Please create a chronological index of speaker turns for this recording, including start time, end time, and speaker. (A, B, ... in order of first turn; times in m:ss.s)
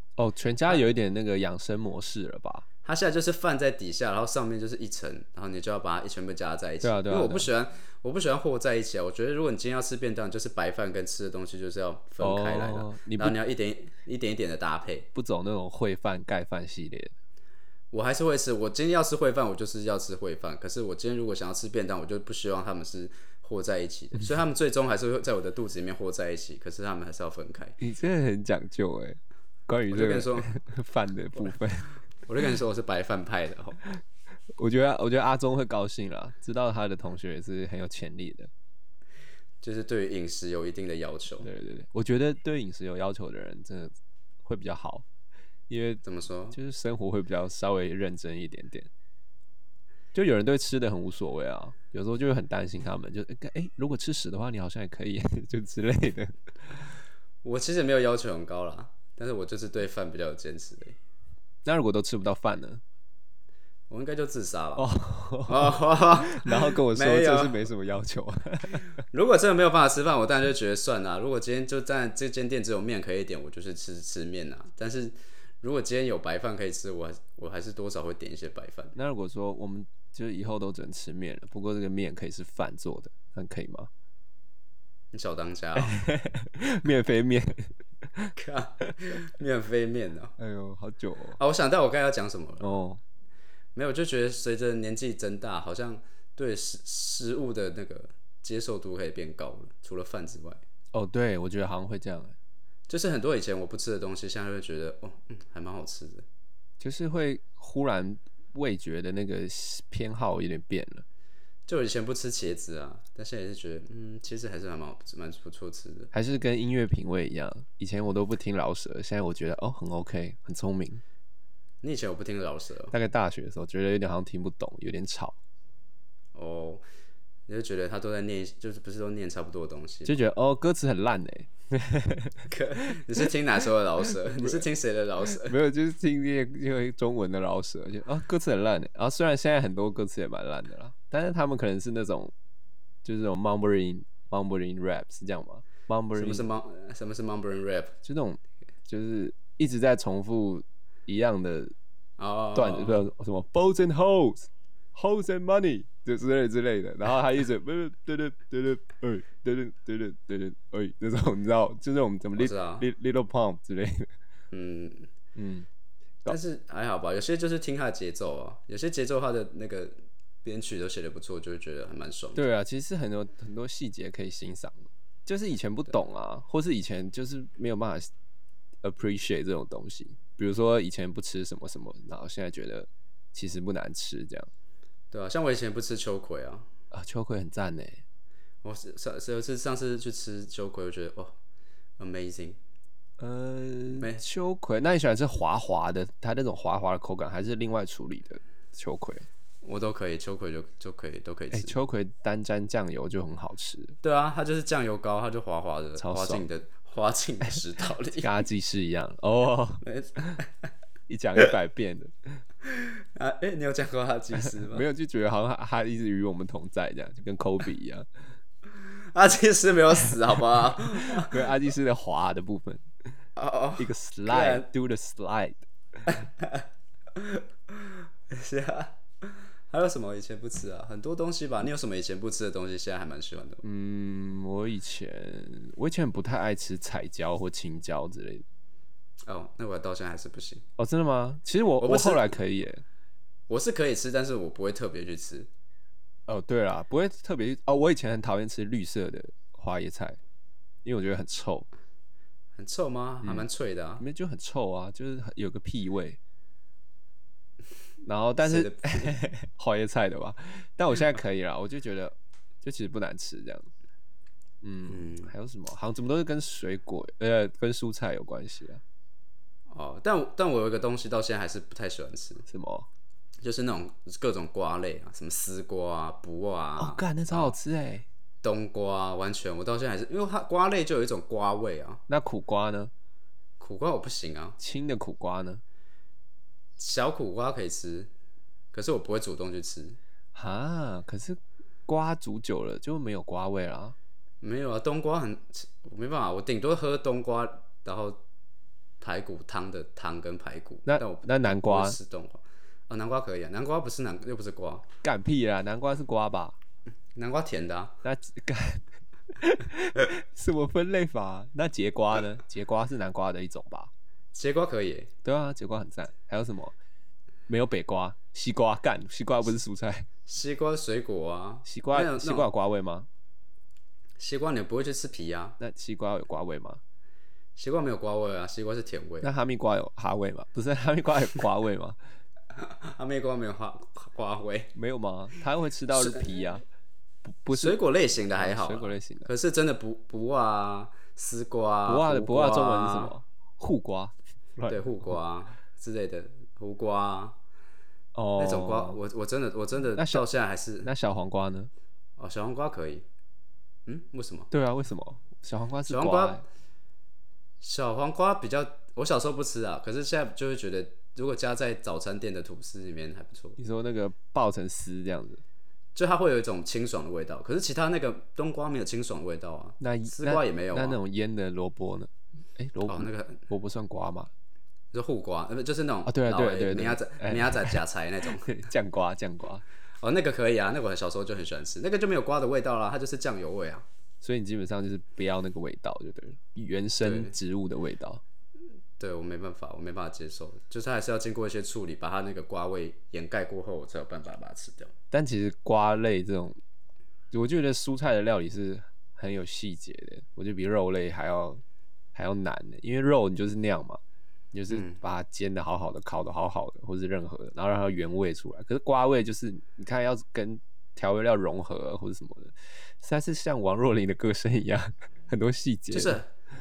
0:00.2-0:02.6 A
0:02.8-0:15.1 B
0:06.8-0:07.5 A
0:12.2-0:13.4 A
0:15.1-0:17.1 A
0:17.9-0:27.8 B
0:27.8-0:31.9 A
0:29.9-0:30.5 B
0:32.2-0:33.8 B
0:34.6-0:38.5 A
0:39.6-0:41.5 B
0:41.4-0:45.0 A
0:45.7-0:48.9 A
0:46.0-0:46.6 B
0:50.1-0:56.8 A
0:57.4-1:01.0 B
1:01.6-1:02.8 A
1:03.9-1:04.9 B
1:04.8-1:08.9 A
1:05.5-1:07.6 B
1:09.1-1:18.9 B
1:18.9-1:23.9 A
1:25.1-1:25.9 B
1:25.8-1:28.3 A
1:28.4-1:30.3 B
1:30.4-1:31.4 A
1:31.4-1:32.7 B
1:32.6-1:33.0 A
1:33.7-1:40.6 B
1:40.9-1:42.3 A
1:42.9-1:46.2 B
1:46.8-1:51.0 A
1:51.7-1:56.1 B
1:56.1-2:01.0 A
2:01.8-2:02.9 B
2:02.9-2:05.4 A
2:06.3-2:06.8 B
2:07.5-2:10.2 B
2:10.0-2:13.2 A
2:12.5-2:15.6 B
2:14.1-2:14.6 A
2:15.3-2:22.3 A
2:23.0-2:26.4 A
2:26.1-2:27.9 B
2:28.0-2:31.7 A
2:32.2-2:33.1 B
2:32.5-2:44.1 A
2:42.4-2:42.8 B
2:44.5-2:45.1 B
2:45.4-2:45.7 A
2:46.3-2:52.4 B
2:52.4-2:58.1 A
2:58.8-3:04.5 A
3:05.1-3:06.7 B
3:06.9-3:08.0 A
3:08.6-3:11.4 B
3:12.0-3:12.6 B
3:13.2-3:19.2 A
3:14.0-3:14.2 B
3:19.6-3:21.8 B
3:21.5-3:24.0 A
3:24.0-3:28.3 B
3:26.0-3:26.5 A
3:28.2-3:30.4 A
3:29.8-3:30.7 B
3:31.1-3:32.4 A
3:32.6-3:34.8 B
3:34.6-3:38.0 A
3:39.0-3:41.4 B
3:40.9-3:42.8 A
3:43.4-3:44.6 B
3:43.8-3:45.6 A
3:46.1-3:53.6 B
3:53.6-3:58.4 A
3:59.2-4:00.6 B
4:00.8-4:02.8 A
4:01.8-4:02.4 B
4:03.5-4:05.5 B
4:06.3-4:10.2 A
4:10.8-4:11.7 A
4:12.6-4:14.0 B
4:13.2-4:13.5 A
4:14.0-4:16.2 A
4:18.0-4:23.7 A
4:18.4-4:19.1 B
4:24.6-4:28.8 A
4:24.9-4:25.3 B
4:29.7-4:32.4 B
4:32.5-4:32.9 A
4:33.4-4:37.6 B
4:36.8-4:38.0 A
4:38.4-4:42.0 B
4:42.1-4:42.9 A
4:43.6-4:44.6 B
4:44.6-4:45.6 A
4:46.8-4:48.1 B
4:48.7-4:50.0 B
4:50.3-4:54.0 A
4:54.4-4:58.2 B
4:59.0-5:04.8 B
5:00.8-5:02.0 A
5:05.0-5:06.6 A
5:07.1-5:08.0 B
5:08.0-5:13.9 A
5:14.3-5:15.1 B
5:15.2-5:16.8 A
5:17.5-5:20.1 A
5:20.3-5:22.5 B
5:21.6-5:23.1 A
5:24.2-5:25.6 B
5:25.6-5:26.8 A
5:27.6-5:29.3 B
5:29.2-5:32.0 A
5:32.5-5:34.7 B
5:34.7-5:36.6 A
5:35.9-5:36.2 B
5:37.2-5:37.8 A
5:37.5-5:43.1 B
5:38.4-5:39.3 A
5:41.8-5:45.1 A
5:44.7-5:47.4 B
5:48.1-5:49.0 A
5:48.4-5:50.9 B
5:50.0-5:50.2 A
5:50.8-5:51.7 A
5:52.2-5:53.0 B
5:53.8-5:54.5 B
5:54.5-5:56.4 A
5:55.9-5:56.4 B
5:57.6-6:03.6 B
6:03.6-6:05.4 A
6:05.9-6:11.0 B
6:09.8-6:14.3 A
6:12.9-6:13.4 B
6:14.9-6:18.5 B
6:16.1-6:17.8 A
6:18.4-6:19.6 A
6:20.0-6:23.8 B
6:24.2-6:28.2 A
6:27.0-6:27.3 B
6:29.0-6:34.9 B
6:35.1-6:36.6 A
6:37.3-6:41.6 A
6:42.1-6:44.0 A
6:44.5-6:56.2 A
6:44.7-6:45.0 B
6:55.9-6:56.3 B